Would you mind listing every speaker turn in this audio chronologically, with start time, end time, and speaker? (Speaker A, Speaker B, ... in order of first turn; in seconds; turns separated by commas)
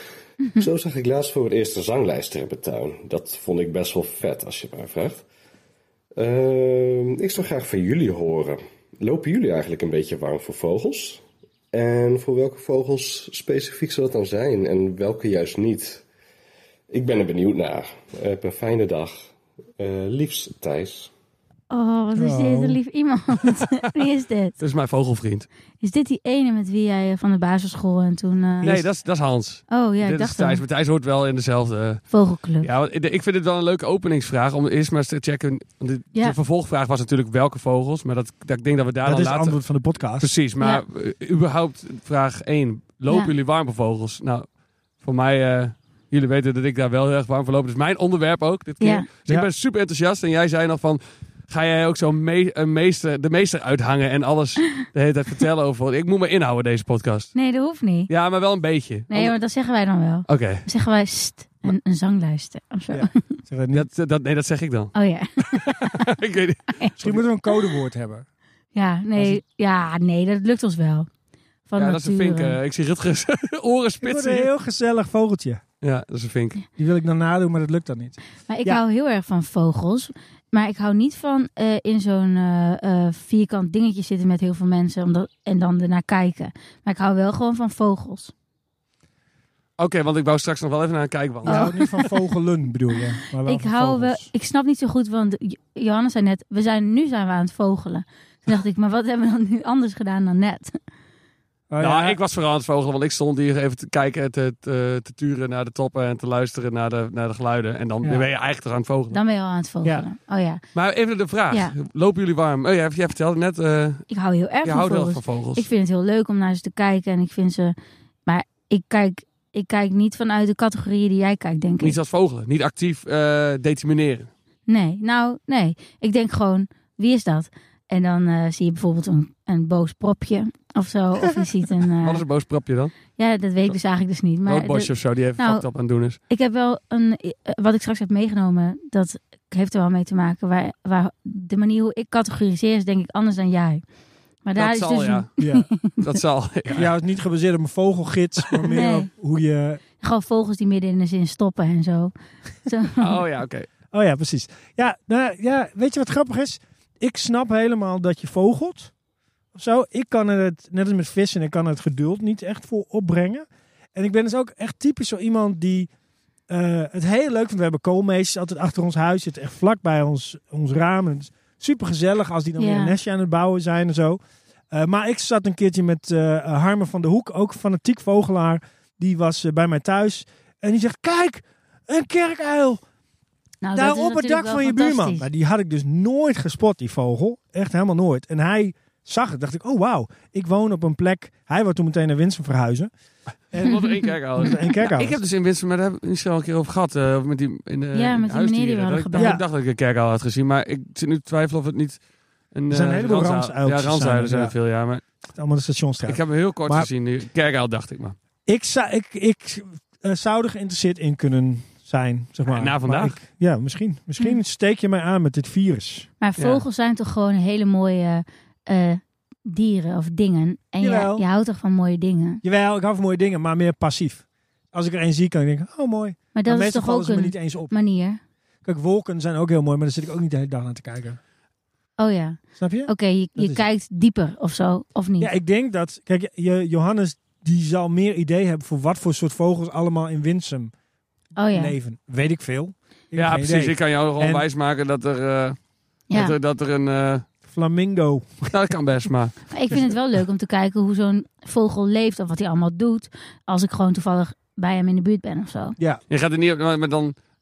Speaker A: 0.5-5.2, Speaker A: 6.2-16.0, Speaker A: 16.9-21.1, Speaker B: 21.7-24.6, Speaker C: 22.1-22.8, Speaker D: 24.6-25.5, Speaker B: 25.8-28.8, Speaker D: 28.6-32.0, Speaker B: 29.7-30.6, Speaker B: 32.1-32.7, Speaker D: 32.6-39.6, Speaker C: 39.0-40.3, Speaker D: 40.2-44.5, Speaker D: 45.0-57.3, Speaker B: 48.8-49.1, Speaker B: 57.3-58.1, Speaker D: 58.1-59.3, Speaker B: 59.1-63.2, Speaker D: 60.3-60.6, Speaker C: 62.9-63.9, Speaker D: 63.7-67.1, Speaker B: 64.9-66.0, Speaker C: 67.0-68.2, Speaker B: 68.7-71.1, Speaker C: 69.1-69.4, Speaker B: 71.7-72.5, Speaker D: 71.8-74.5, Speaker C: 74.0-75.6, Speaker D: 75.8-76.6, Speaker C: 76.8-78.8, Speaker B: 78.5-88.3, Speaker D: 89.8-91.7, Speaker B: 91.4-92.1, Speaker C: 91.4-94.3, Speaker B: 93.5-100.8, Speaker C: 101.7-102.2, Speaker D: 101.8-109.2, Speaker B: 109.1-110.6, Speaker D: 110.7-114.0, Speaker B: 114.1-122.0, Speaker D: 114.6-115.7, Speaker D: 121.8-124.3, Speaker B: 124.7-132.2, Speaker D: 132.0-132.9, Speaker B: 133.2-135.6, Speaker D: 134.4-136.2, Speaker B: 136.3-143.8, Speaker B: 144.4-146.0, Speaker D: 144.6-145.3, Speaker C: 145.4-145.7, Speaker D: 146.0-146.9, Speaker C: 146.7-149.8, Speaker B: 148.7-149.1, Speaker B: 150.0-152.1, Speaker B: 152.6-153.2, Speaker D: 153.0-153.7, Speaker C: 153.9-158.9, Speaker C: 159.5-165.9, Speaker C: 166.5-174.2, Speaker B: 172.6-172.9, Speaker C: 174.7-182.8, Speaker B: 183.6-185.3, Speaker C: 183.7-192.9, Speaker C: 193.5-195.2, Speaker D: 193.5-202.0, Speaker B: 197.9-199.3, Speaker C: 199.2-199.4, Speaker D: 202.5-205.0, Speaker C: 202.7-204.5, Speaker C: 205.3-206.9, Speaker D: 206.0-208.2, Speaker C: 208.4-216.1, Speaker D: 212.5-213.2, Speaker B: 216.2-222.4, Speaker D: 216.4-216.6, Speaker C: 220.8-221.2, Speaker C: 222.4-227.7, Speaker B: 226.3-228.2, Speaker C: 228.6-231.2, Speaker B: 232.0-235.3, Speaker C: 232.6-233.6, Speaker C: 235.2-240.7, Speaker B: 241.4-241.7, Speaker C: 241.5-244.4, Speaker D: 243.1-245.6, Speaker B: 246.1-246.3, Speaker D: 246.1-247.2, Speaker C: 247.4-248.5, Speaker D: 248.5-249.3, Speaker B: 249.5-255.8, Speaker D: 256.1-257.1